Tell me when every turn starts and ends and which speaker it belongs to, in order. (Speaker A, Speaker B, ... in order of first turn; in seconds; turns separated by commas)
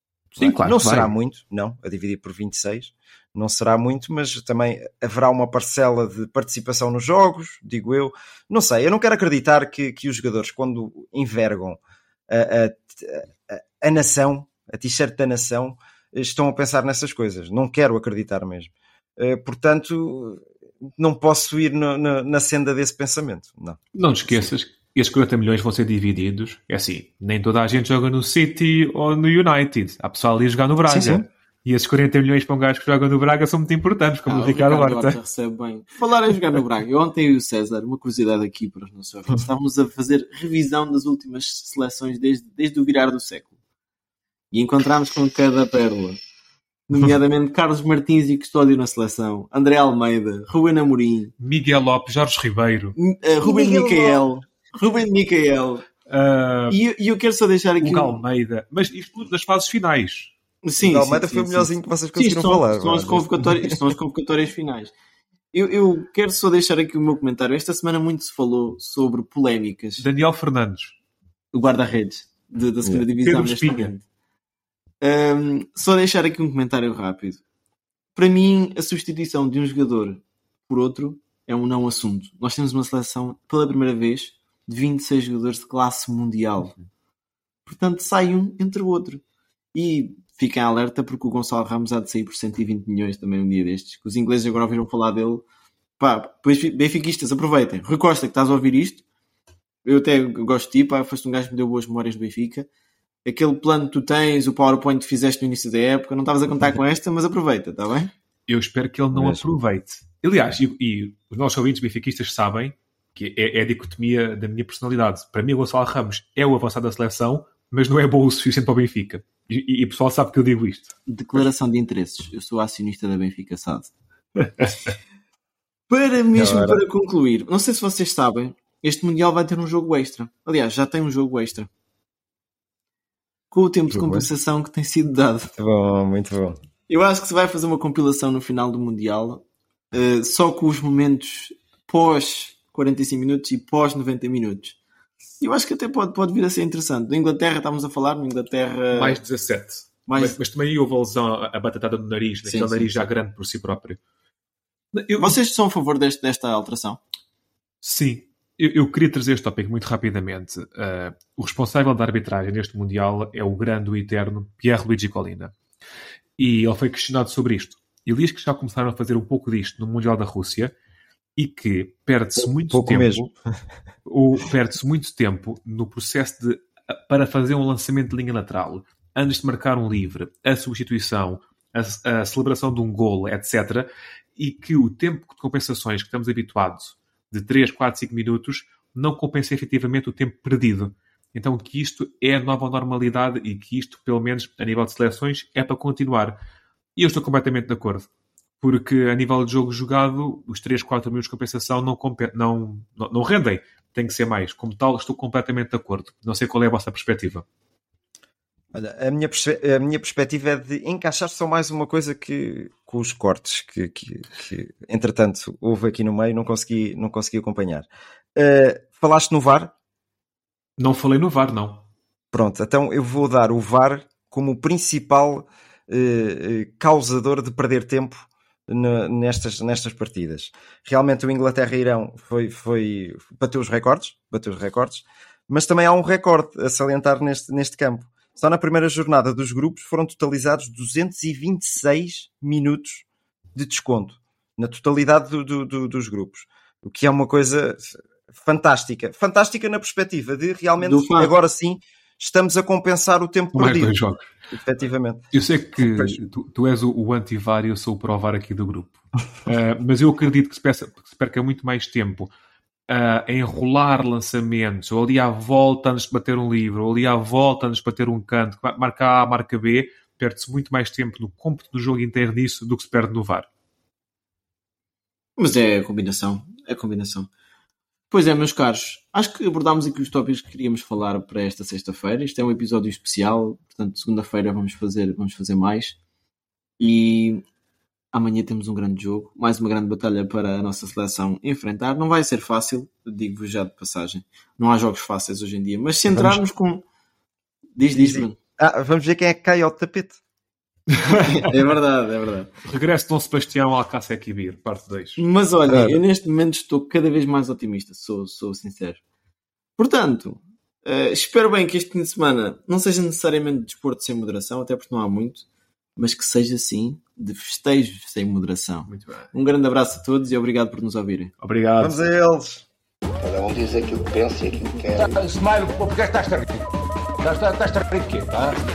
Speaker A: 0.4-1.1, Speaker B: 0.4-23.8, Speaker A: 23.9-35.2, Speaker B: 30.9-31.2, Speaker C: 34.3-43.5, Speaker C: 44.5-46.2, Speaker C: 46.9-51.3, Speaker A: 51.4-53.0, Speaker C: 53.0-55.9, Speaker B: 53.4-54.2, Speaker A: 56.1-56.8, Speaker C: 56.7-58.2, Speaker A: 57.8-60.3, Speaker C: 60.6-64.9, Speaker B: 60.8-63.3, Speaker C: 65.5-70.0, Speaker A: 70.0-71.0, Speaker C: 71.5-74.0, Speaker A: 73.2-73.9, Speaker C: 75.0-77.4, Speaker C: 78.2-86.7, Speaker C: 87.7-89.2, Speaker C: 89.7-95.4, Speaker C: 96.0-99.0, Speaker C: 99.8-102.7, Speaker C: 103.2-108.1, Speaker A: 108.5-120.9, Speaker B: 109.1-109.4, Speaker C: 121.1-123.9, Speaker A: 124.4-124.7, Speaker C: 125.9-131.7, Speaker B: 126.3-126.8, Speaker C: 133.5-135.5, Speaker B: 133.9-134.3, Speaker B: 135.6-136.6, Speaker C: 136.9-144.8, Speaker C: 145.4-149.2, Speaker A: 148.9-154.0, Speaker C: 150.1-150.4, Speaker C: 152.4-152.9, Speaker A: 154.9-155.3, Speaker C: 155.2-157.0, Speaker A: 157.8-165.5, Speaker A: 166.4-170.7, Speaker A: 171.4-173.3, Speaker B: 172.4-173.3, Speaker A: 174.1-196.4, Speaker A: 196.9-198.1, Speaker A: 198.6-207.4, Speaker B: 208.7-219.7, Speaker A: 220.8-221.9, Speaker B: 222.3-253.9, Speaker C: 250.8-251.3, Speaker A: 253.5-254.3, Speaker B: 254.5-256.2, Speaker A: 255.3-262.3, Speaker A: 262.9-273.5, Speaker C: 275.4-277.3, Speaker C: 278.1-286.0, Speaker C: 286.8-287.4, Speaker C: 288.1-296.8, Speaker B: 296.1-296.4, Speaker C: 297.8-298.4, Speaker B: 297.9-300.2, Speaker A: 300.9-301.4, Speaker C: 301.2-302.5, Speaker A: 302.6-305.2, Speaker C: 305.2-309.0, Speaker B: 305.7-306.0, Speaker C: 309.8-315.4, Speaker C: 316.0-321.3, Speaker A: 318.9-319.3, Speaker A: 321.4-322.0, Speaker B: 321.8-322.6, Speaker D: 323.2-325.2, Speaker E: 325.0-326.7, Speaker E: 327.2-328.6